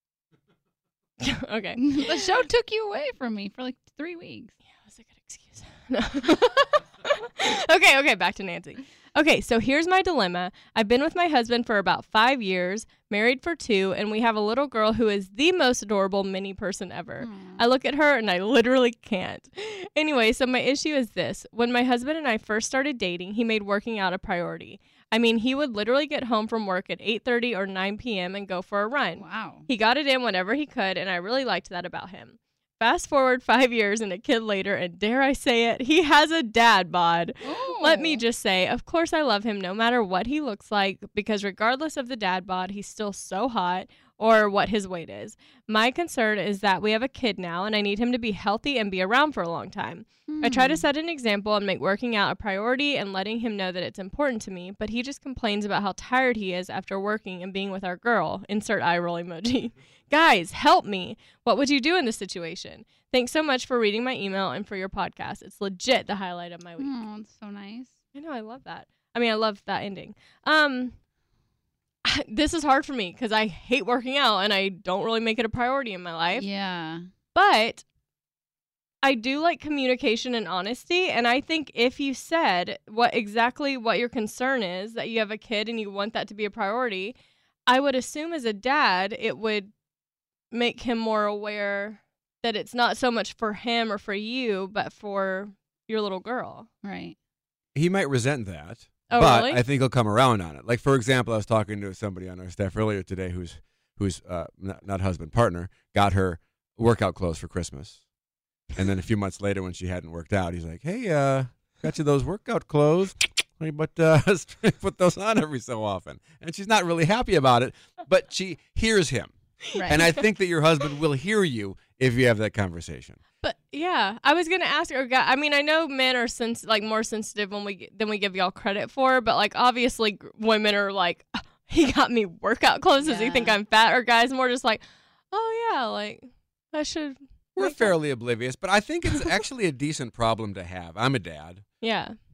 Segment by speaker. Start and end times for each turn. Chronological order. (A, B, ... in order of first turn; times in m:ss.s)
0:01.2-0:02.3 A
0:01.8-0:04.5 B
0:04.8-1:06.9 A
0:17.2-0:17.6 B
0:29.2-0:29.6 B
0:37.4-0:38.2 B
0:50.3-0:50.8 B
1:06.8-1:07.9 B
1:08.1-1:10.9 A
1:12.0-1:16.4 A
1:16.3-1:17.0 B
1:17.3-1:17.8 A
1:19.0-1:27.1 A
1:27.7-1:29.7 A
1:30.5-1:36.7 A
1:36.8-1:37.2 B
1:37.7-1:48.0 C
1:39.1-1:39.6 A
1:48.7-1:59.3 C
1:59.8-2:00.0 B
1:59.8-2:03.2 C
2:03.4-2:17.9 A
2:13.0-2:13.6 B
2:17.6-2:21.6 C
2:21.8-2:22.2 A